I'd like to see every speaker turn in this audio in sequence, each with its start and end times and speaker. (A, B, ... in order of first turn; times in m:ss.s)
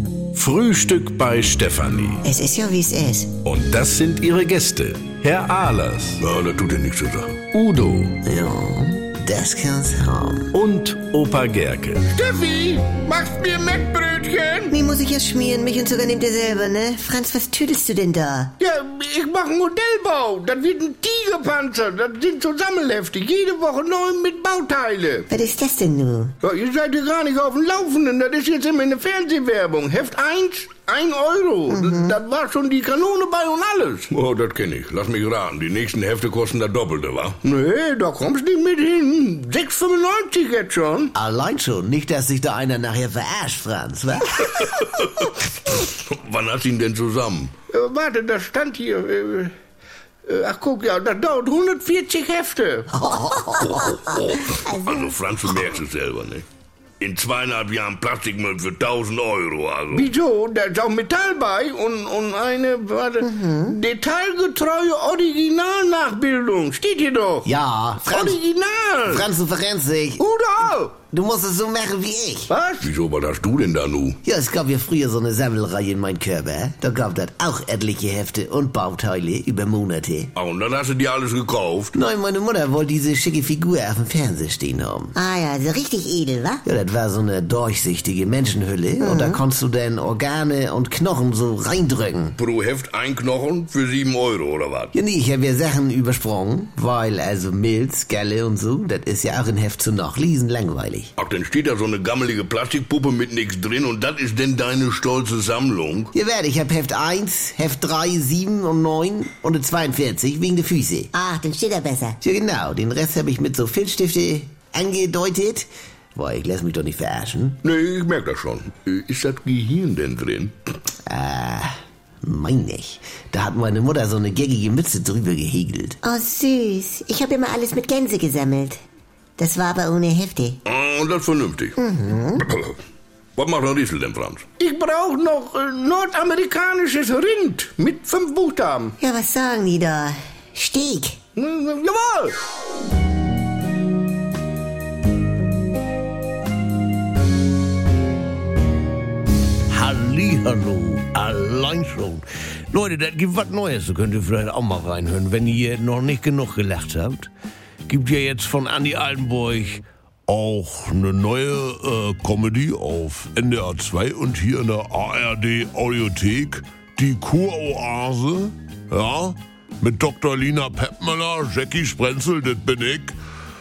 0:00.3-0:02.2 A
0:02.2-0:03.4 B
0:03.4-0:06.2 A
0:06.2-0:07.5 C
0:07.5-0:08.2 A
0:08.2-0:10.5 D
0:10.5-0:12.1 A
0:12.1-0:14.7 E
0:14.7-0:18.5 B
0:18.6-0:25.2 E
0:25.3-0:26.3 B
0:26.4-0:28.1 C
0:26.8-0:34.1 E
0:31.7-0:32.1 B
0:34.1-0:37.4 C
0:37.4-0:41.1 E
0:41.1-0:44.8 D
0:44.8-0:47.5 C
0:47.7-0:49.5 E
0:50.2-0:52.9 E
0:53.0-0:53.5 D
0:53.3-0:54.0 B
0:53.6-0:56.4 C
0:57.0-1:00.1 C
0:59.9-1:07.5 E
1:03.2-1:03.7 B
1:07.4-1:08.4 D
1:08.1-1:09.2 E
1:09.0-1:10.2 D
1:10.2-1:10.9 E
1:11.0-1:12.5 D
1:12.5-1:12.9 E
1:12.8-1:14.2 C
1:14.2-1:20.3 D
1:20.3-1:21.9 C
1:21.9-1:25.1 D
1:25.1-1:26.6 B
1:26.6-1:32.3 D
1:29.0-1:29.4 B
1:32.4-1:34.9 C
1:34.9-1:41.1 D
1:41.2-1:46.1 C
1:46.1-1:51.1 D
1:51.1-1:52.2 B
1:52.2-1:57.6 D
1:57.6-2:00.5 C
2:01.0-2:06.0 D
2:06.0-2:08.8 B
2:09.4-2:10.6 B
2:10.6-2:11.8 C
2:11.8-2:12.4 B
2:12.4-2:12.8 C
2:13.4-2:14.5 C
2:14.6-2:18.9 E
2:19.0-2:21.2 B
2:21.4-2:22.3 E
2:29.8-2:32.2 F
2:30.0-2:31.6 D
2:32.7-2:37.3 F
2:37.9-2:53.1 F